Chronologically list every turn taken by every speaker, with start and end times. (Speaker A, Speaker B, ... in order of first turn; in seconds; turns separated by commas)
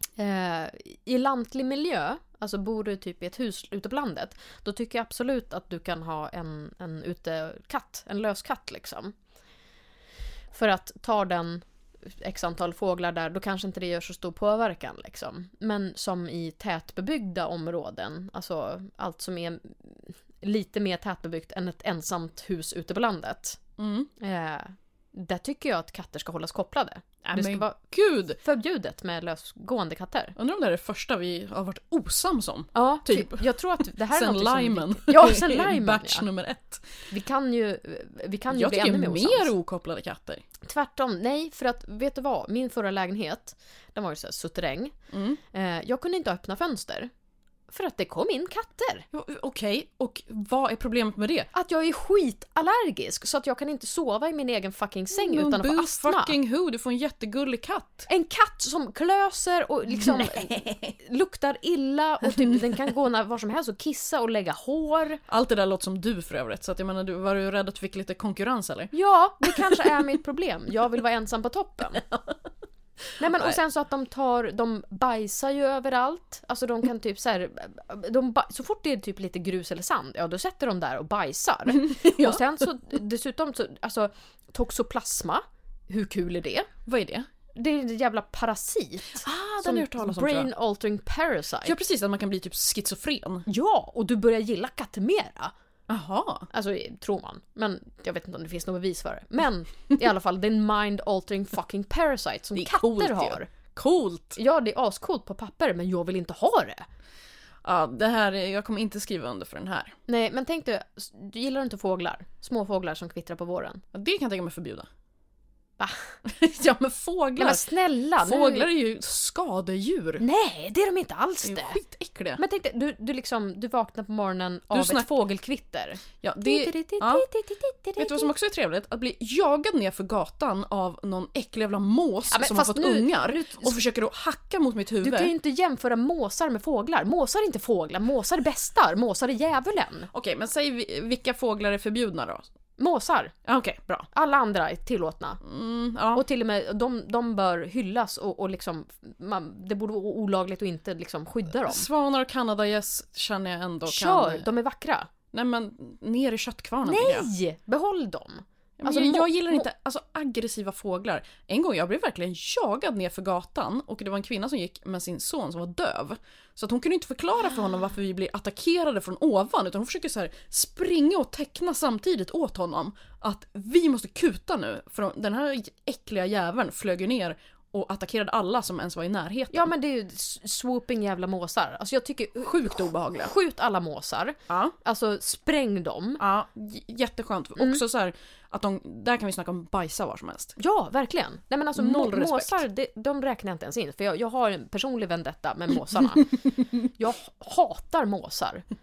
Speaker A: 0.2-9.1, Speaker A: 10.5-23.6, Speaker B: 23.8-24.1, Speaker A: 24.2-30.4, Speaker B: 27.2-28.4, Speaker B: 30.4-37.0, Speaker A: 32.7-36.2, Speaker A: 37.1-39.5, Speaker B: 38.5-40.4, Speaker A: 40.6-45.0, Speaker B: 45.1-45.4, Speaker A: 45.5-47.1, Speaker A: 47.7-49.0, Speaker B: 49.1-51.5, Speaker A: 51.5-56.4, Speaker B: 55.1-58.1, Speaker A: 58.1-65.2, Speaker B: 60.0-60.9, Speaker B: 65.3-70.0, Speaker A: 68.9-72.0, Speaker B: 72.0-72.3, Speaker A: 73.2-86.7, Speaker B: 81.7-82.5, Speaker B: 86.9-87.3, Speaker A: 87.5-91.8, Speaker B: 89.2-90.5, Speaker B: 91.6-93.5, Speaker A: 93.5-95.5, Speaker B: 95.9-96.5, Speaker A: 96.5-103.5, Speaker B: 102.5-104.4, Speaker A: 104.4-106.8, Speaker B: 107.6-109.9, Speaker A: 110.1-113.8, Speaker B: 113.9-114.9, Speaker A: 115.8-116.1, Speaker B: 116.2-117.7, Speaker A: 117.4-118.7, Speaker B: 118.2-120.2, Speaker A: 120.2-121.8, Speaker B: 121.4-122.4, Speaker A: 122.4-128.3, Speaker B: 124.7-125.1, Speaker B: 126.2-127.2, Speaker B: 128.0-135.3, Speaker A: 132.3-133.8, Speaker A: 135.0-140.1, Speaker B: 140.1-142.4, Speaker A: 142.8-143.3, Speaker B: 143.4-144.1, Speaker A: 144.1-145.4, Speaker B: 145.4-146.2, Speaker A: 146.1-151.9, Speaker B: 151.7-154.5, Speaker A: 153.9-155.1, Speaker B: 155.3-157.3, Speaker A: 156.8-159.7, Speaker B: 158.8-179.7, Speaker A: 179.5-186.2, Speaker B: 182.4-183.3, Speaker B: 184.5-184.8, Speaker B: 186.2-190.6, Speaker A: 187.6-187.8, Speaker A: 190.6-198.7, Speaker B: 191.8-192.6